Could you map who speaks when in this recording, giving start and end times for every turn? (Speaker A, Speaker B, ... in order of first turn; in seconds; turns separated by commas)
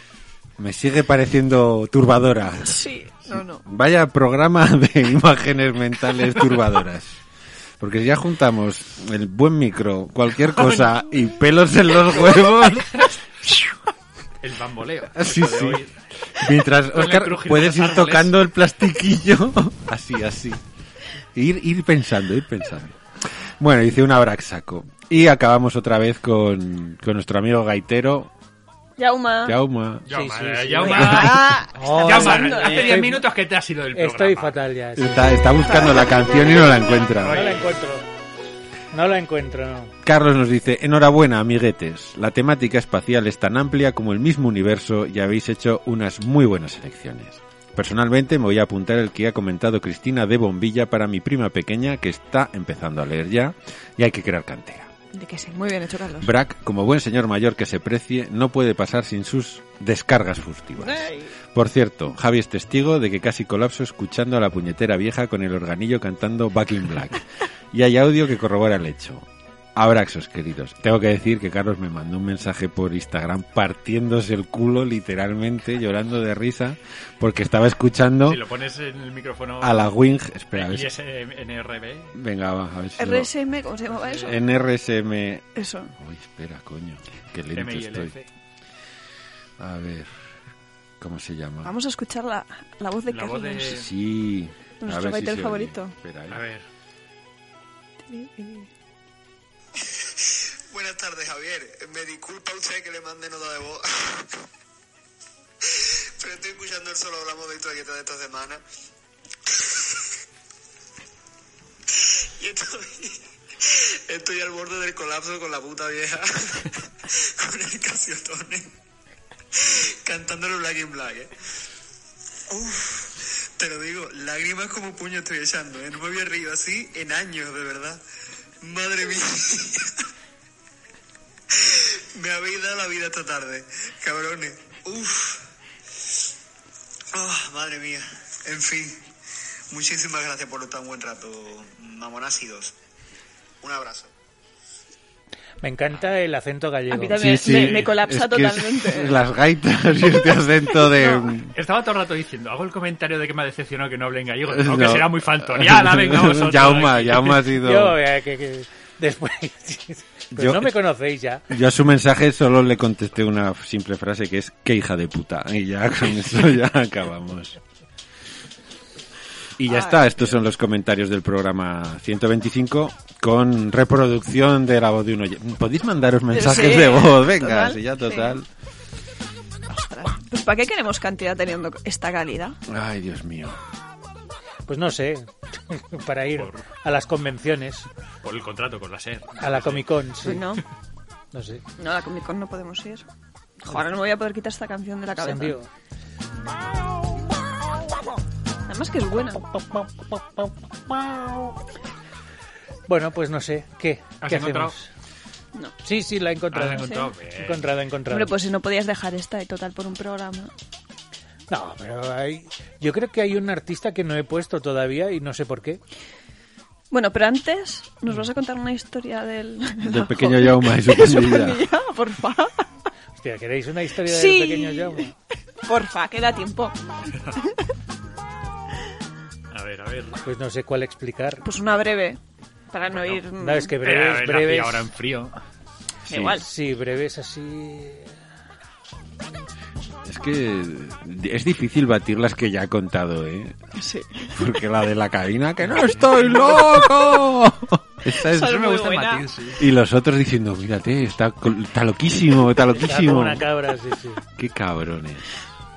Speaker A: 0.6-7.2, Speaker B: 2.6-3.6, Speaker A: 7.8-13.7, Speaker C: 10.6-10.8, Speaker C: 14.4-15.9, Speaker A: 15.1-15.8, Speaker A: 16.3-20.6, Speaker C: 16.9-18.3, Speaker A: 21.3-28.3, Speaker B: 29.0-29.6, Speaker A: 29.4-30.1, Speaker C: 30.1-34.6, Speaker D: 30.1-33.2, Speaker B: 30.8-33.1, Speaker A: 30.9-31.5, Speaker D: 33.9-35.3, Speaker A: 35.0-37.5, Speaker B: 35.6-36.4, Speaker C: 37.1-37.7, Speaker D: 37.2-38.0, Speaker D: 38.9-39.9, Speaker A: 40.0-54.9, Speaker B: 55.1-56.3, Speaker A: 56.2-78.4, Speaker B: 60.8-61.3, Speaker C: 78.2-79.9, Speaker A: 79.6-80.9, Speaker C: 80.5-82.1, Speaker A: 82.1-83.3, Speaker B: 83.0-84.4, Speaker C: 84.0-84.3, Speaker A: 84.2-85.4, Speaker B: 85.5-85.9, Speaker A: 86.0-88.1, Speaker C: 87.5-88.3, Speaker A: 89.6-90.1, Speaker A: 91.0-91.7, Speaker B: 91.6-93.8, Speaker C: 93.1-93.9, Speaker A: 93.7-96.4, Speaker B: 94.8-95.9, Speaker C: 96.3-96.6, Speaker B: 98.1-98.7, Speaker E: 100.7-104.4, Speaker E: 105.7-108.6, Speaker E: 112.4-118.7, Speaker E: 119.6-121.3, Speaker E: 122.5-128.0, Speaker E: 128.6-129.9, Speaker E: 131.5-135.4, Speaker E: 137.1-139.1, Speaker E: 139.7-142.7, Speaker E: 143.6-144.1, Speaker D: 145.6-147.2, Speaker B: 146.9-149.2, Speaker A: 147.1-151.5, Speaker B: 150.7-151.3, Speaker C: 151.5-157.5, Speaker A: 154.5-158.0, Speaker D: 157.6-161.5, Speaker A: 160.3-160.8, Speaker A: 161.5-167.6, Speaker A: 169.6-178.5, Speaker B: 169.7-170.1, Speaker B: 176.3-178.4, Speaker B: 179.7-182.6, Speaker A: 182.7-183.6, Speaker D: 184.7-187.9, Speaker C: 186.3-186.6, Speaker C: 188.2-190.0, Speaker D: 189.4-190.4, Speaker B: 190.2-190.6, Speaker D: 191.3-191.6, Speaker B: 191.8-193.1, Speaker B: 193.6-195.6, Speaker D: 195.2-195.7, Speaker B: 198.7-199.4, Speaker D: 199.5-201.6, Speaker D: 202.9-204.9, Speaker C: 204.2-204.7, Speaker D: 205.8-208.3, Speaker C: 206.5-207.7, Speaker B: 206.8-207.1, Speaker B: 208.1-210.5, Speaker D: 211.5-215.8, Speaker B: 216.9-222.7, Speaker A: 219.8-221.7, Speaker D: 223.2-225.1, Speaker B: 224.1-225.1, Speaker B: 225.6-226.8, Speaker C: 229.5-230.2, Speaker D: 230.2-231.4, Speaker B: 231.4-232.2, Speaker B: 232.7-233.7, Speaker C: 232.9-233.2, Speaker D: 233.4-234.9, Speaker C: 233.8-235.4, Speaker A: 236.1-236.4, Speaker B: 236.1-236.4, Speaker D: 236.3-238.1, Speaker A: 240.1-243.6, Speaker B: 243.8-244.4, Speaker A: 244.3-248.7, Speaker C: 245.7-246.2, Speaker B: 248.3-249.3, Speaker C: 248.3-249.7, Speaker A: 249.6-253.5, Speaker D: 252.8-254.2, Speaker A: 254.4-255.3